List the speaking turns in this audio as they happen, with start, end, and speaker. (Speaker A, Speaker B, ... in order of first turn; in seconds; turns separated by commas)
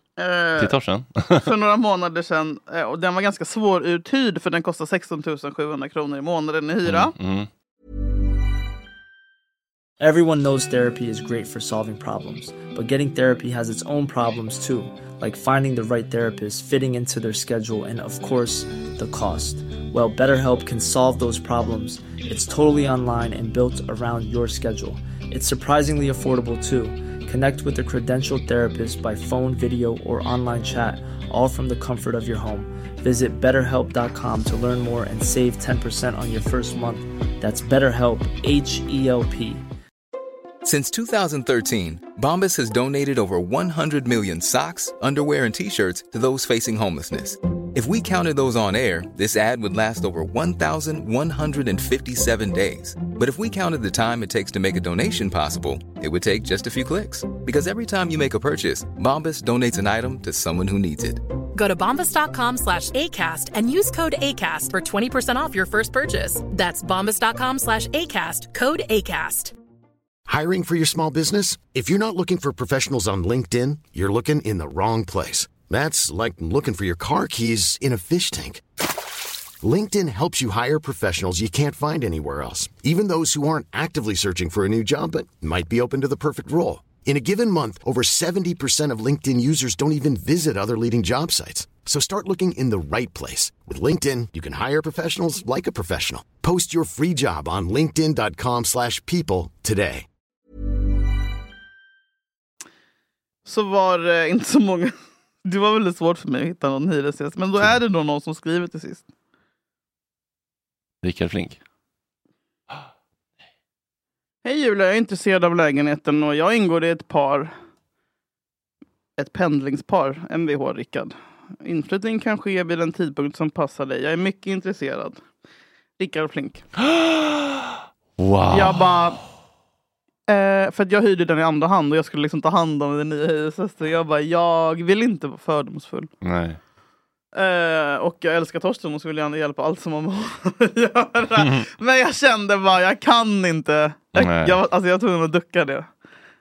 Speaker A: 0.2-0.7, Speaker B: 0.6-1.5, Speaker A: 1.4-7.1, Speaker B: 6.8-7.5, Speaker C: 10.0-39.6, Speaker D: 40.6-61.2, Speaker E: 61.5-69.5, Speaker F: 70.3-78.6, Speaker F: 79.6-100.0, Speaker A: 103.4-104.9, Speaker A: 105.4-109.0, Speaker B: 111.0-111.6, Speaker A: 114.4-117.5, Speaker A: 119.2-125.2, Speaker A: 126.0-126.6, Speaker B: 126.9-127.7, Speaker B: 128.2-129.1, Speaker A: 128.5-129.2, Speaker A: 130.3-136.1, Speaker B: 136.2-136.6, Speaker A: 137.3-145.9, Speaker B: 144.1-144.6